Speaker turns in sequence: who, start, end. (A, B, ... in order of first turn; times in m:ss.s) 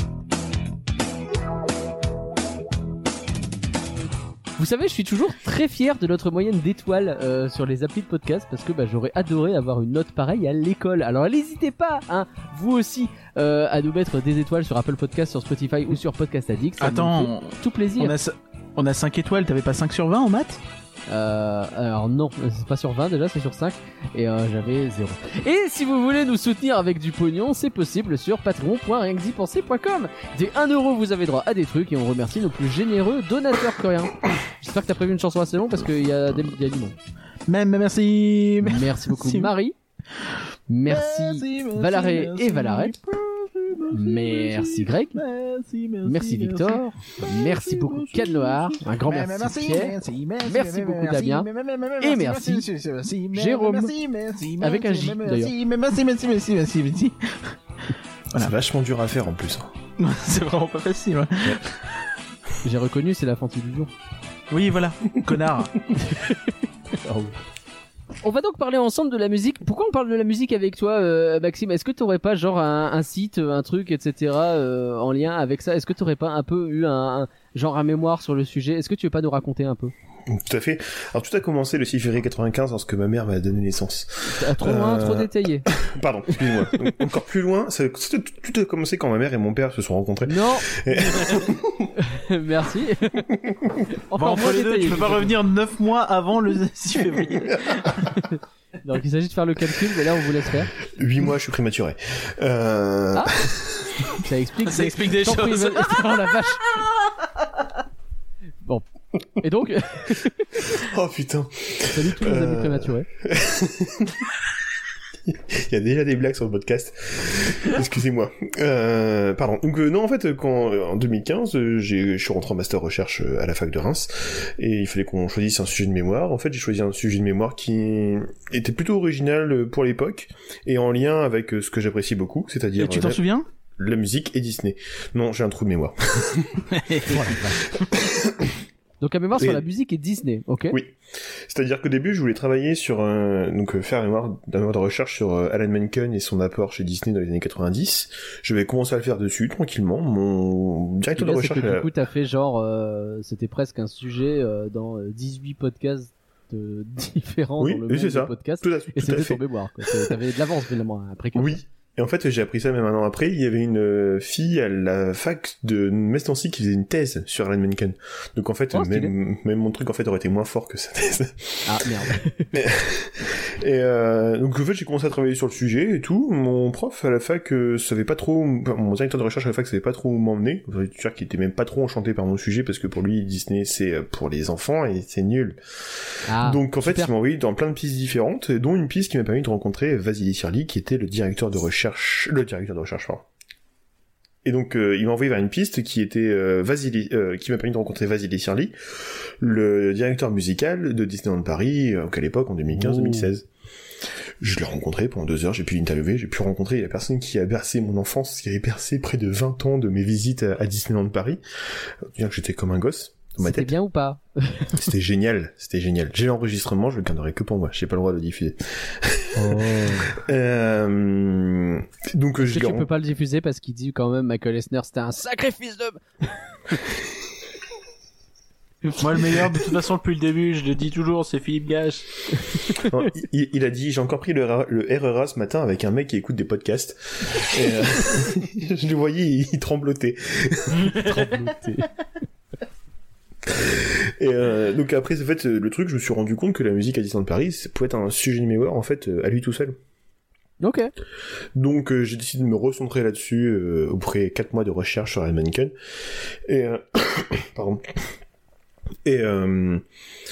0:04.6-0:18.1 A
0:16.8-0:20.6 B
0:21.1-0:37.0 A
0:37.5-0:39.5 B
0:38.6-0:39.7 A
0:40.7-0:42.9 A
0:40.9-0:57.6 B
0:43.9-0:45.2 A
0:46.0-0:51.5 A
0:52.0-0:52.7 A
0:53.3-0:53.9 A
0:54.6-0:55.5 A
0:58.4-0:59.7 C
1:00.0-1:01.8 B
1:02.6-1:03.9 A
1:04.5-1:05.9 B
1:06.1-1:06.3 A
1:07.0-1:07.4 A
1:08.2-1:19.9 A
1:20.3-1:31.9 C
1:24.3-1:25.6 A
1:30.2-1:31.3 A
1:32.0-1:33.3 A
1:34.1-1:35.3 A
1:34.2-1:38.0 B
1:38.8-1:40.7 A
1:40.9-1:44.1 C
1:43.1-1:43.4 A
1:44.2-1:46.6 A
1:44.6-1:46.4 B
1:49.4-1:50.8 A
1:50.6-1:54.3 C
1:51.8-1:53.1 A
1:55.2-2:13.2 C
2:12.8-2:13.4 B
2:13.8-2:16.7 C
2:16.7-2:17.2 B
2:17.1-2:17.6 A
2:17.7-2:18.6 C
2:19.0-2:20.8 A
2:19.4-2:19.6 C
2:20.7-2:31.9 C
2:31.2-2:41.6 A
2:37.6-2:40.2 C
2:41.3-2:51.9 C
2:48.7-2:49.1 A
2:51.6-2:52.5 A
2:52.5-3:13.2 C
3:06.3-3:07.1 A
3:14.4-3:23.4 C
3:22.8-3:23.3 A
3:24.4-3:33.7 C
3:33.4-3:34.7 A
3:34.7-3:42.9 C
3:39.4-3:40.1 A
3:42.4-3:46.0 A
3:49.0-3:52.2 B
3:52.8-4:01.5 C
4:01.0-4:01.9 A
4:03.4-4:09.8 C
4:10.6-4:10.9 A
4:11.5-4:18.0 C
4:19.0-4:19.8 C